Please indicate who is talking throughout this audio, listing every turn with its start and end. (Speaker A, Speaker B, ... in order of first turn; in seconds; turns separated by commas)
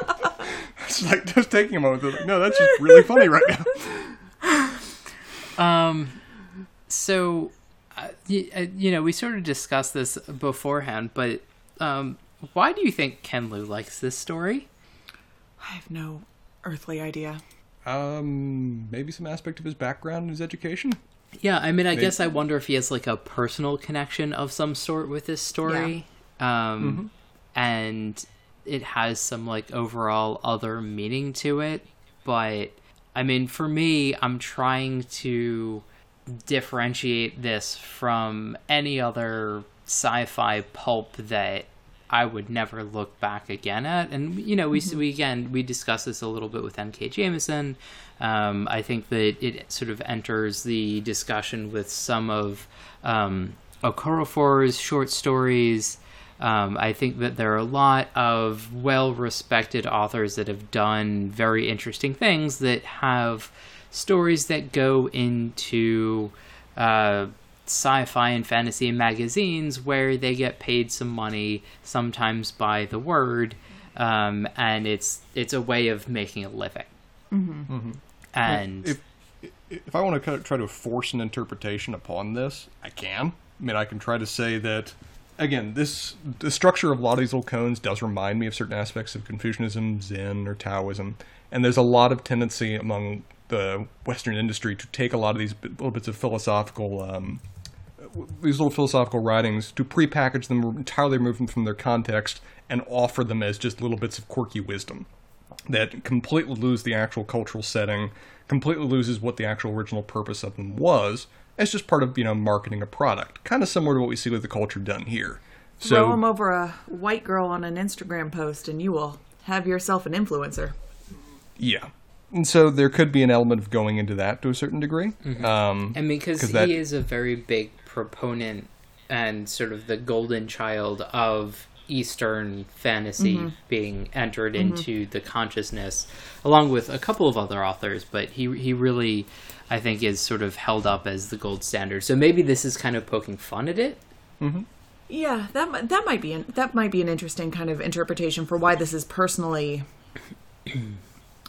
Speaker A: 0.4-4.2, Speaker B: 5.6-6.2, Speaker B: 6.9-14.7, Speaker C: 15.6-17.4, Speaker A: 17.9-21.0, Speaker B: 21.4-76.9, Speaker C: 25.6-25.9, Speaker A: 26.8-27.1, Speaker C: 77.3-77.7, Speaker A: 77.7-97.4, Speaker B: 78.3-79.0, Speaker A: 98.0-105.1, Speaker A: 105.7-116.2, Speaker C: 115.8-120.7, Speaker A: 121.6-126.8, Speaker B: 125.2-144.0, Speaker C: 133.2-133.5, Speaker C: 134.6-134.8, Speaker A: 144.4-144.7, Speaker C: 145.1-149.8